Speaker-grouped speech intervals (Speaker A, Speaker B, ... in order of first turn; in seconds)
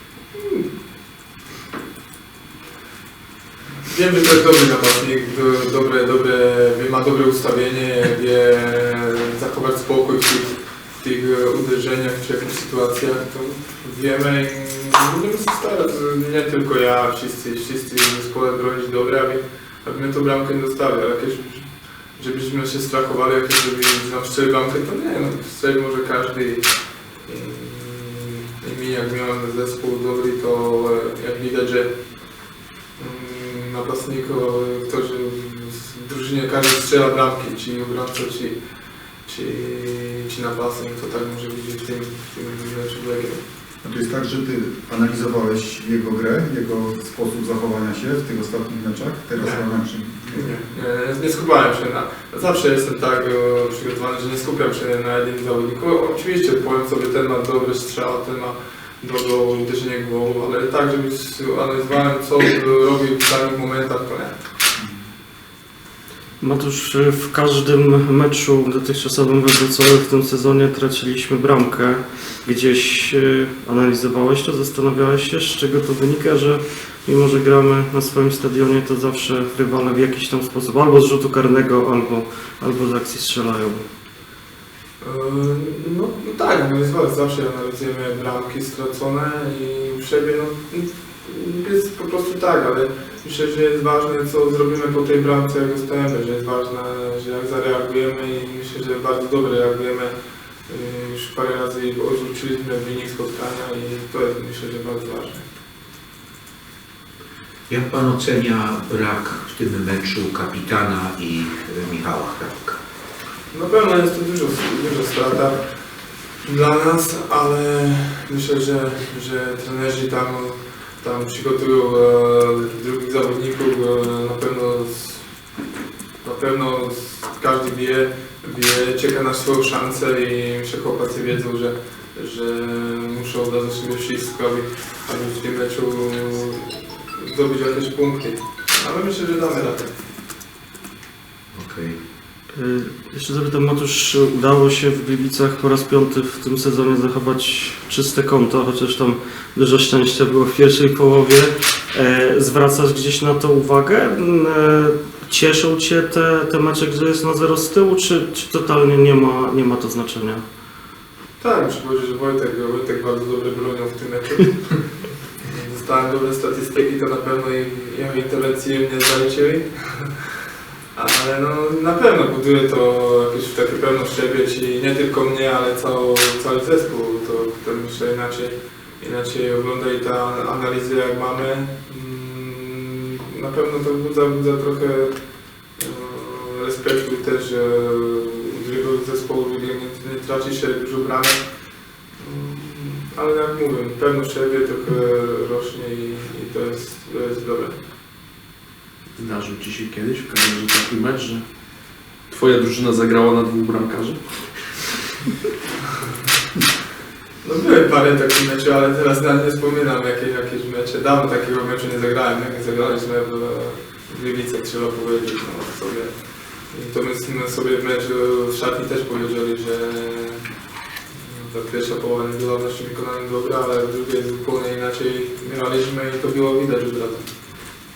Speaker A: 0.3-0.7, 3.9-26.6, 27.2-31.9, 33.0-38.6, 39.2-43.4, 49.4-49.7, 50.3-64.4, 85.0-100.1, 100.7-105.4, 113.5-115.7, 116.4-125.3, 126.2-139.9, 161.4-170.2, 170.9-185.1, 185.8-191.4, 192.2-197.8, 207.4-216.2, 216.7-220.4, 221.1-227.3
Speaker B: 43.8-50.5
Speaker C: 66.4-83.8, 142.6-160.4
Speaker D: 107.7-112.8, 141.5-142.0
Speaker E: 199.1-201.5, 202.3-204.8